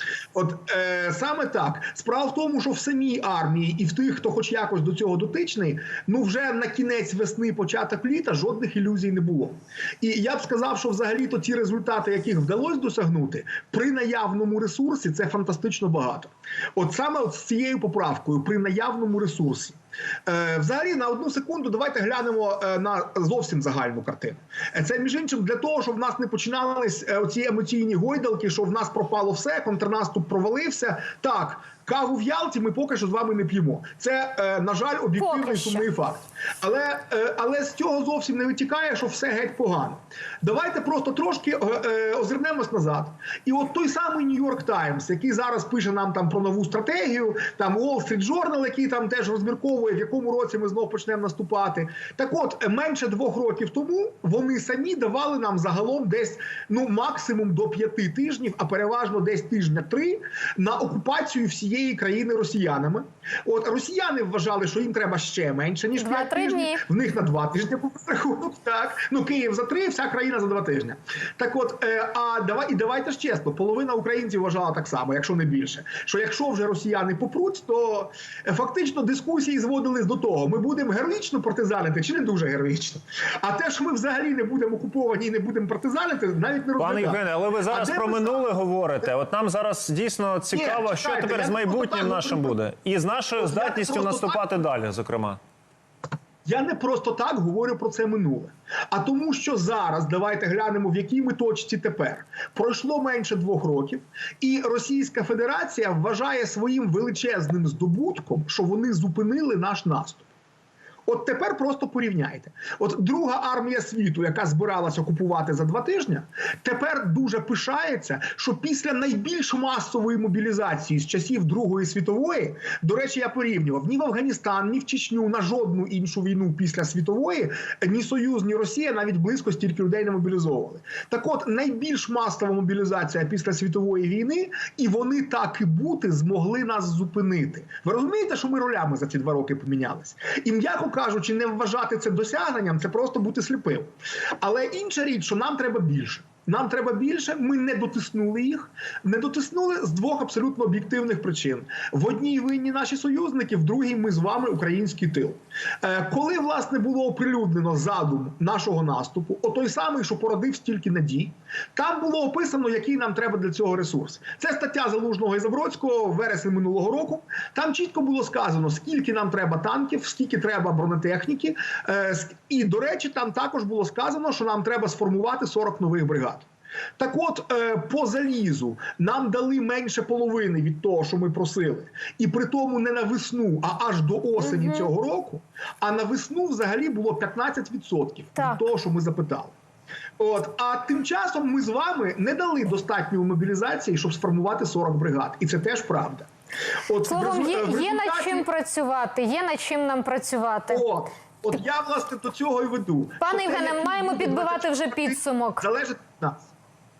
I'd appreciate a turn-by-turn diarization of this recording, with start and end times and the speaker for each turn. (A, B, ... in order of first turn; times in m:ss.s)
0:00.4-1:28.4 A
0:35.2-0:35.9 B
1:06.0-1:06.8 B
1:26.8-1:35.4 C
1:30.5-1:32.6 A
1:33.4-1:34.4 A
1:36.4-1:50.3 A
1:51.1-3:09.5 A
3:04.4-3:04.9 B
3:08.4-3:08.6 B
3:10.2-3:16.3 A
3:16.9-3:18.5 A
3:17.0-3:20.9 B
3:20.7-3:26.5 A
3:23.2-3:25.7 B